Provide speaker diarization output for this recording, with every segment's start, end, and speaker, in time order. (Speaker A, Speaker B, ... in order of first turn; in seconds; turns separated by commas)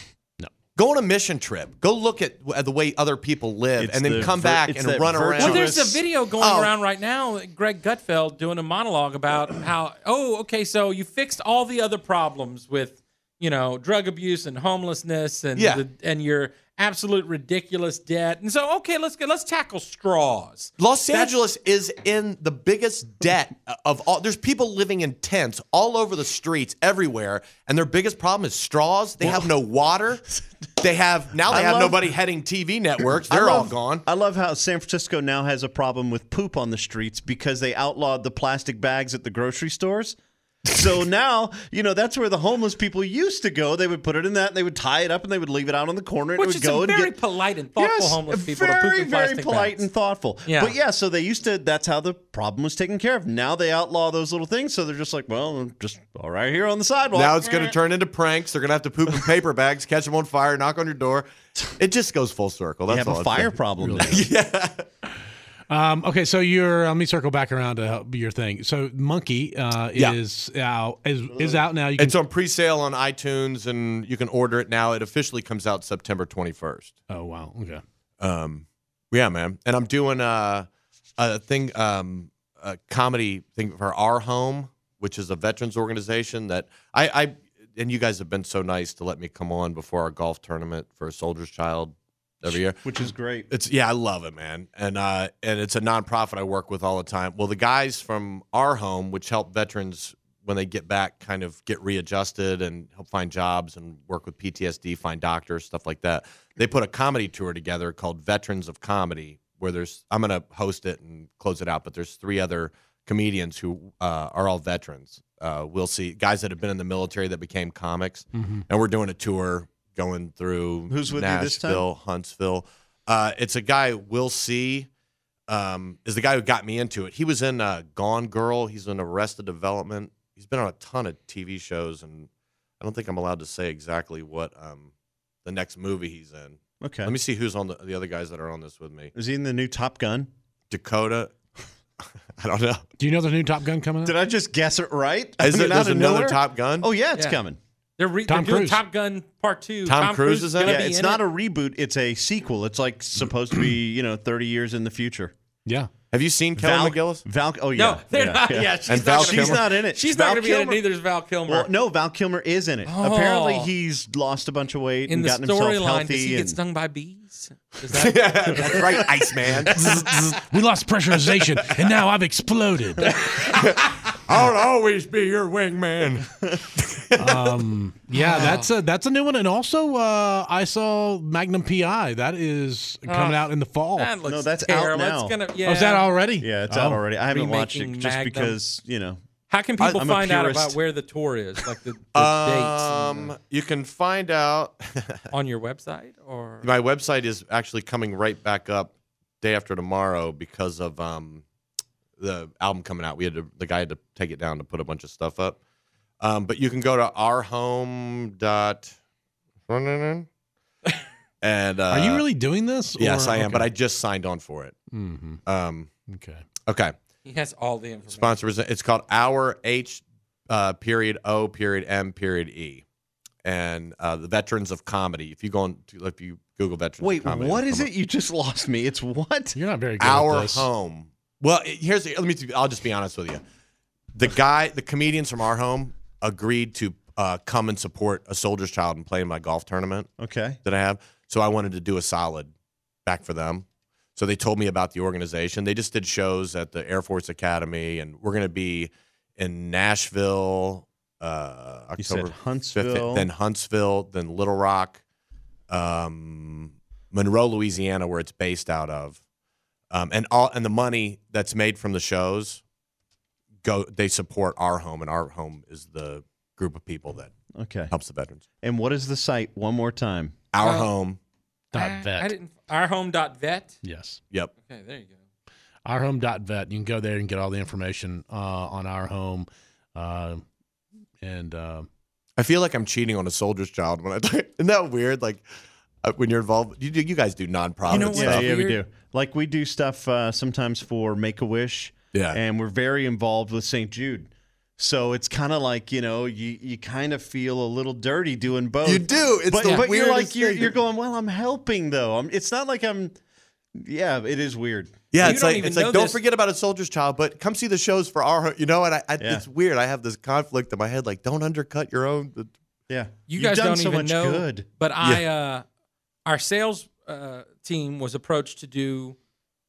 Speaker A: 0.8-5.8, Speaker B: 3.8-6.0, Speaker C: 5.4-21.3, Speaker A: 6.4-6.7, Speaker A: 15.6-15.8, Speaker A: 20.8-30.2, Speaker A: 30.8-34.0, Speaker B: 31.5-32.0, Speaker B: 33.3-40.1, Speaker B: 40.7-47.2, Speaker C: 46.4-49.8, Speaker B: 47.8-57.8, Speaker C: 50.5-50.7, Speaker A: 57.1-63.5, Speaker B: 62.9-64.3, Speaker D: 63.8-64.2, Speaker A: 64.1-64.8, Speaker D: 65.7-72.2, Speaker B: 71.3-71.6, Speaker A: 72.0-77.0, Speaker D: 77.1-77.8, Speaker A: 78.2-80.7, Speaker A: 81.2-124.9, Speaker B: 92.8-93.5, Speaker D: 118.3-118.6, Speaker B: 120.9-121.8, Speaker A: 125.5-132.3, Speaker A: 132.8-134.9, Speaker A: 135.4-139.1, Speaker B: 136.8-137.1, Speaker B: 139.1-140.3, Speaker A: 140.7-141.3, Speaker A: 142.4-142.8, Speaker D: 143.0-144.2, Speaker B: 144.0-147.6, Speaker A: 145.4-146.9, Speaker C: 148.0-151.2, Speaker D: 148.3-148.8, Speaker A: 149.8-150.8, Speaker B: 150.6-155.3, Speaker A: 156.1-157.2, Speaker B: 156.6-160.8, Speaker C: 157.7-161.7, Speaker A: 158.8-159.6, Speaker B: 161.5-166.6, Speaker C: 162.8-163.7, Speaker C: 165.1-169.1, Speaker A: 167.9-170.0, Speaker D: 169.7-173.3, Speaker A: 173.3-177.5, Speaker D: 177.2-184.1, Speaker C: 178.1-178.7, Speaker C: 183.1-186.1, Speaker B: 184.2-185.4, Speaker D: 185.6-187.0, Speaker B: 186.4-189.2, Speaker C: 187.3-188.6, Speaker C: 189.5-193.3, Speaker B: 189.8-190.8, Speaker A: 192.1-195.3, Speaker C: 195.3-196.7, Speaker A: 196.6-201.4, Speaker A: 202.2-205.6, Speaker A: 206.2-208.9, Speaker A: 209.7-210.3, Speaker A: 211.4-212.2, Speaker D: 211.9-213.7, Speaker A: 213.0-214.8, Speaker D: 214.9-215.4, Speaker A: 215.4-215.9, Speaker D: 216.1-216.4, Speaker A: 216.7-216.9, Speaker C: 217.2-218.4, Speaker A: 218.1-222.8, Speaker A: 223.4-227.9, Speaker B: 227.0-229.6, Speaker D: 229.5-230.7, Speaker A: 230.0-233.4, Speaker A: 234.1-240.1, Speaker B: 240.2-240.6, Speaker A: 240.6-242.5, Speaker A: 243.0-243.6, Speaker A: 244.2-255.0, Speaker B: 252.0-253.3, Speaker A: 255.7-259.2, Speaker A: 259.9-262.6, Speaker A: 263.6-267.3, Speaker B: 267.5-267.9, Speaker A: 267.9-268.4, Speaker B: 268.6-270.4, Speaker A: 270.5-271.2, Speaker C: 270.6-270.9, Speaker D: 271.7-272.3, Speaker C: 271.7-273.8, Speaker D: 273.8-274.2, Speaker C: 274.6-275.2, Speaker D: 275.8-280.4, Speaker D: 281.2-281.9, Speaker A: 282.4-285.4, Speaker A: 286.0-288.5, Speaker C: 287.9-288.8, Speaker B: 287.9-303.1, Speaker A: 292.1-292.4, Speaker A: 298.8-300.7, Speaker B: 303.7-305.1, Speaker A: 305.1-312.5, Speaker C: 305.2-306.2, Speaker B: 309.2-309.4, Speaker B: 312.9-314.6, Speaker C: 313.3-315.6, Speaker C: 316.2-319.2